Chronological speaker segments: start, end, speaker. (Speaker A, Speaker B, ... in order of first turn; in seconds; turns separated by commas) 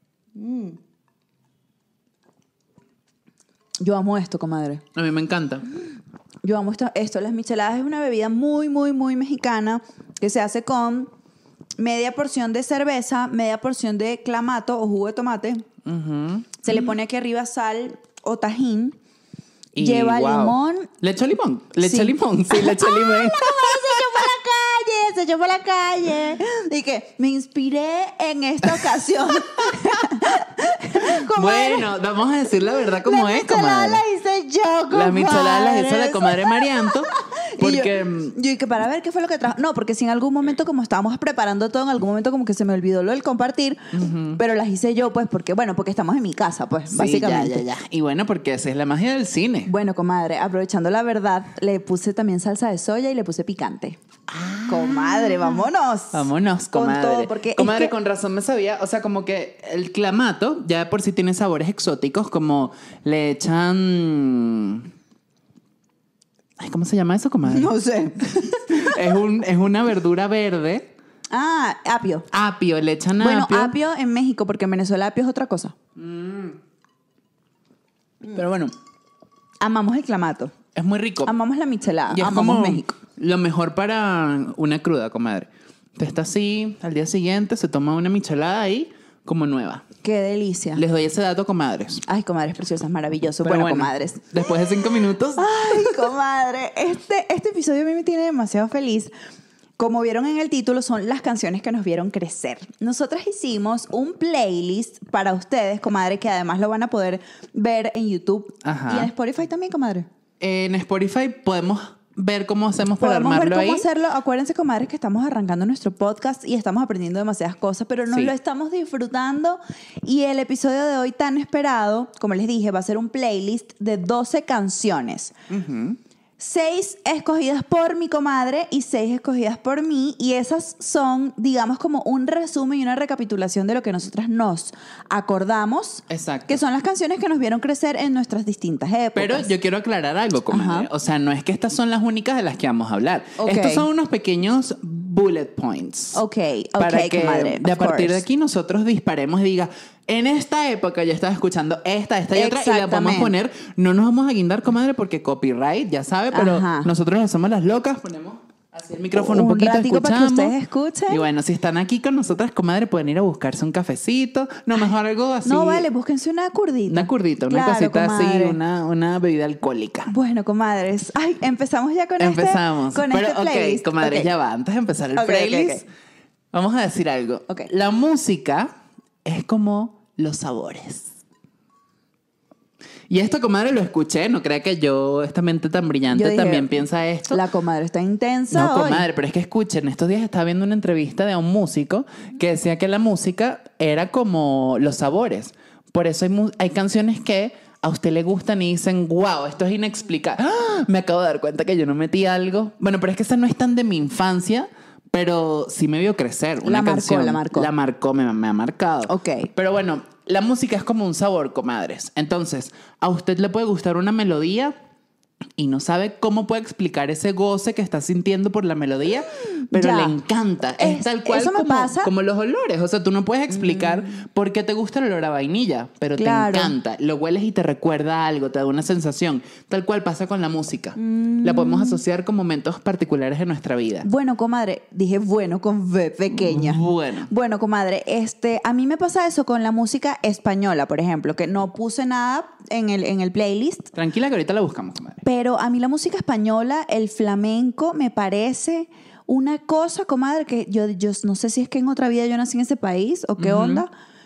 Speaker A: 0.4-0.8, Speaker A: 3.8-4.8, Speaker B: 4.9-5.7, Speaker A: 6.4-11.1, Speaker A: 11.8-15.7, Speaker B: 15.8-16.6, Speaker A: 16.6-19.0, Speaker B: 19.8-24.1, Speaker A: 19.8-20.9, Speaker A: 21.8-31.9, Speaker B: 28.6-30.1, Speaker B: 31.0-34.0, Speaker A: 32.8-47.6, Speaker B: 34.9-38.4, Speaker B: 43.9-44.4, Speaker B: 46.9-49.7, Speaker A: 49.7-54.0, Speaker B: 54.3-64.9, Speaker A: 54.7-57.9, Speaker B: 66.6-67.7, Speaker A: 67.5-69.0, Speaker B: 68.2-70.9, Speaker A: 71.3-72.3, Speaker B: 72.3-73.8, Speaker A: 73.2-75.8, Speaker B: 76.0-76.6, Speaker B: 78.3-78.8, Speaker A: 79.6-80.5, Speaker B: 80.8-81.3, Speaker A: 81.2-83.0, Speaker B: 82.1-89.8, Speaker A: 90.0-90.8, Speaker B: 90.8-92.0, Speaker A: 92.1-94.3, Speaker B: 93.4-96.1, Speaker A: 95.4-99.1, Speaker A: 99.8-110.1, Speaker B: 108.6-109.1, Speaker B: 110.4-113.9, Speaker A: 113.0-125.3, Speaker B: 125.5-126.0, Speaker A: 126.4-139.5, Speaker B: 136.1-136.6, Speaker B: 139.2-146.2, Speaker A: 140.5-140.9, Speaker A: 143.4-143.9, Speaker A: 146.1-148.2, Speaker B: 146.8-160.5, Speaker A: 152.3-153.3, Speaker A: 156.3-156.9, Speaker A: 159.1-161.2, Speaker B: 161.1-165.9, Speaker A: 165.4-168.6, Speaker B: 166.9-170.1, Speaker A: 170.1-174.3, Speaker B: 172.2-175.9, Speaker A: 175.2-175.8, Speaker B: 176.5-178.7, Speaker B: 179.2-181.1, Speaker B: 183.1-187.4, Speaker A: 186.1-186.8, Speaker A: 187.3-189.1, Speaker B: 188.5-214.8, Speaker A: 206.6-207.7, Speaker A: 209.1-209.5, Speaker B: 215.6-234.1, Speaker A: 219.4-220.2, Speaker A: 220.8-222.1, Speaker A: 223.5-224.1, Speaker A: 226.2-226.8, Speaker A: 231.0-232.0, Speaker A: 234.0-243.9, Speaker B: 236.3-237.3, Speaker B: 243.9-245.2, Speaker A: 245.2-253.9, Speaker B: 253.4-253.8